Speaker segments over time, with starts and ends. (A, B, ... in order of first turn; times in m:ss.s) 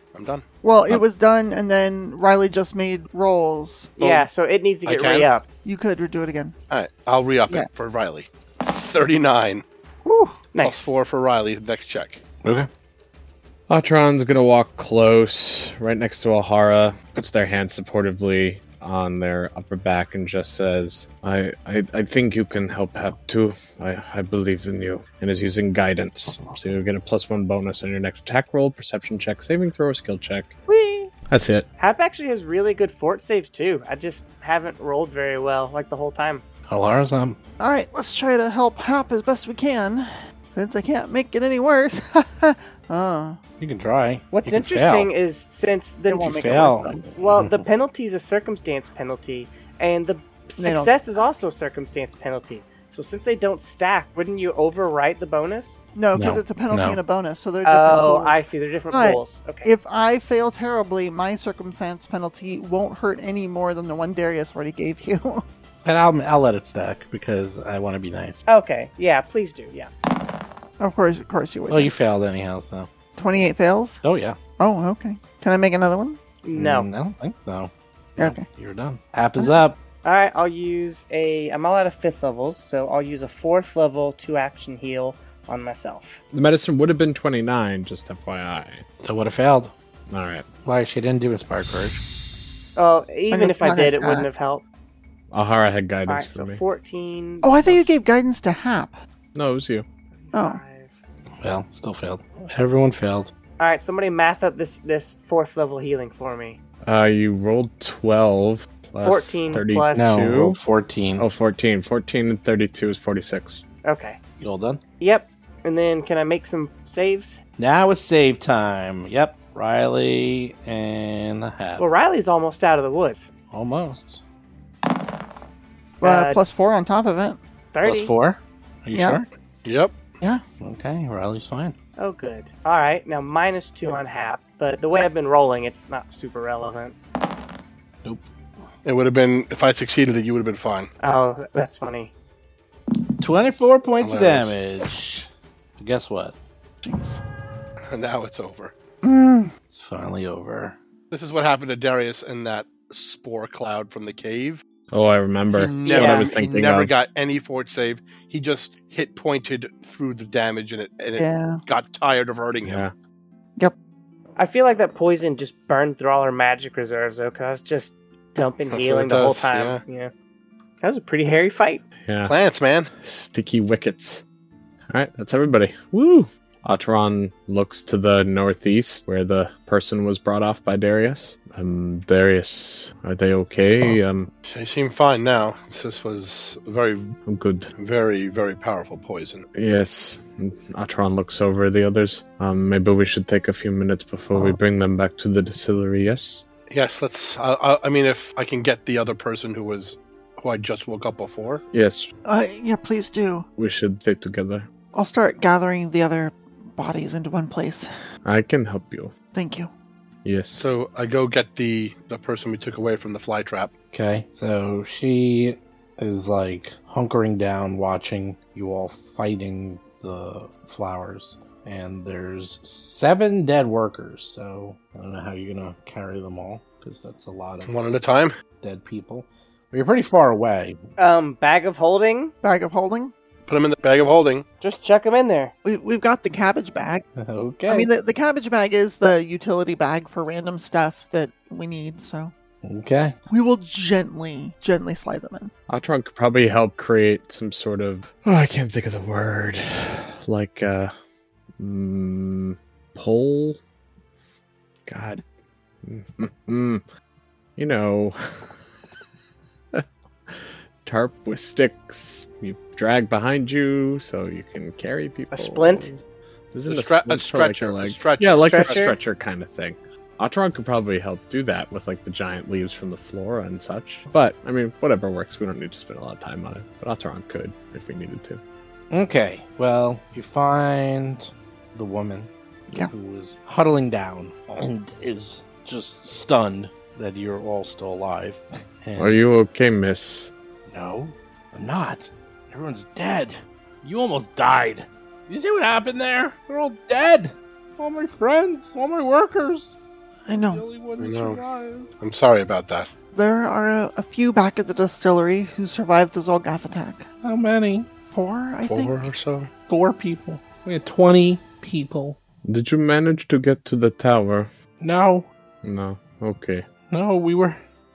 0:00.1-0:00.4 A
0:00.6-0:04.0 B
0:04.0-0:04.3 A
0:04.0-0:05.4 C
0:04.8-0:05.3 A
0:05.6-0:06.6 B
0:06.7-0:09.6 A
0:10.0-0:10.4 B
0:10.5-0:10.9 C
0:10.6-0:12.2 A
0:12.4-0:12.7 D
0:13.7-0:30.5 E
0:30.7-0:31.1 B
0:31.3-0:31.7 E
0:31.8-0:36.4 C
0:36.7-0:37.4 D
0:37.6-0:43.4 B
0:43.6-0:45.1 D
0:44.3-0:55.8 C
0:46.1-0:47.0 B
0:46.3-0:47.6 D
0:50.6-0:50.9 B
0:56.0-1:05.4 B
0:56.1-0:57.0 D
0:57.6-0:59.7 C
1:05.8-1:08.4 D
1:08.5-1:09.9 C
1:10.8-1:11.9 B
1:11.7-1:12.9 D
1:13.2-1:14.0 B
1:14.0-1:14.4 D
1:14.6-1:16.2 B
1:16.4-1:16.9 C
1:16.5-1:19.8 D
1:18.2-1:18.4 B
1:20.0-1:26.2 C
1:26.3-1:28.8 E
1:29.0-1:29.7 D
1:30.1-1:30.4 E
1:30.6-1:32.0 D
1:32.8-1:34.6 C
1:33.3-1:34.3 B
1:35.3-1:36.6 E
1:36.1-1:38.0 C
1:37.4-1:39.0 B
1:39.3-1:39.8 E
1:40.1-1:40.9 C
1:40.3-1:40.6 B
1:41.4-1:43.3 D
1:43.6-1:46.6 C
1:46.8-1:50.6 E
1:49.0-1:49.4 D
1:49.0-1:50.2 C
1:49.9-1:51.3 D
1:51.2-1:53.6 E
1:53.8-1:54.2 C
1:54.4-1:54.8 D
1:55.0-1:57.4 C
1:57.6-2:01.8 D
2:01.8-2:03.3 C
2:03.5-2:04.2 D
2:06.0-2:07.4 B
2:06.0-2:06.4 C
2:07.7-2:08.1 C
2:07.8-2:09.3 D
2:08.9-2:09.2 B
2:09.6-2:09.9 A
2:10.6-2:11.8 D
2:12.0-2:17.0 C
2:18.8-2:20.9 A
2:21.0-2:22.1 C
2:23.2-2:26.4 D
2:24.0-2:24.6 A
2:26.8-2:27.2 B
2:27.9-2:28.7 A
2:29.0-2:29.5 B
2:29.7-2:30.8 D
2:31.1-2:34.6 A
2:34.9-2:36.9 E
2:35.5-2:42.8 A
2:35.9-2:36.3 C
2:41.2-2:41.6 B
2:42.6-2:42.9 E
2:44.4-2:50.1 C
2:48.7-2:49.8 A
2:50.8-2:51.8 C
2:52.0-2:52.3 E
2:52.2-2:52.9 A
2:53.0-2:54.2 E
2:54.9-3:04.3 E
3:04.4-3:07.1 A
3:07.3-3:07.7 E
3:07.8-3:09.4 A
3:09.6-3:16.4 E
3:16.7-3:21.6 A
3:21.7-3:22.1 E
3:22.3-3:23.4 B
3:23.6-3:24.7 E
3:24.9-3:27.9 B
3:28.2-3:29.1 E
3:29.3-3:29.7 B
3:30.2-3:30.6 E
3:30.5-3:33.7 A
3:33.9-3:47.7 D
3:47.6-3:48.3 A
3:48.6-3:50.8 D
3:51.0-3:52.3 C
3:52.4-3:53.1 B
3:53.5-3:54.4 A
3:54.6-3:55.5 C
3:55.6-3:57.0 B
3:57.2-3:57.9 D
3:57.7-4:02.3 B
4:02.6-4:03.1 D
4:03.3-4:05.5 B
4:05.7-4:10.9 E
4:11.6-4:13.6 E
4:14.8-4:15.2 E
4:15.8-4:16.8 E
4:17.6-4:18.6 E
4:19.7-4:25.9 E
4:25.3-4:26.0 C
4:26.5-4:38.4 E
4:26.7-4:28.9 A
4:28.4-4:28.9 C
4:38.9-4:42.3 D
4:42.9-4:49.2 D
4:49.0-4:50.3 E
4:50.7-4:59.8 D
5:00.3-5:00.6 B
5:00.3-5:01.9 D
5:01.0-5:01.4 A
5:02.0-5:02.9 A
5:03.1-5:07.0 B
5:07.2-5:07.9 D
5:08.1-5:09.1 B
5:08.6-5:09.5 A
5:09.7-5:12.2 D
5:12.4-5:14.5 E
5:14.8-5:15.3 D
5:15.6-5:16.6 E
5:16.9-5:17.6 D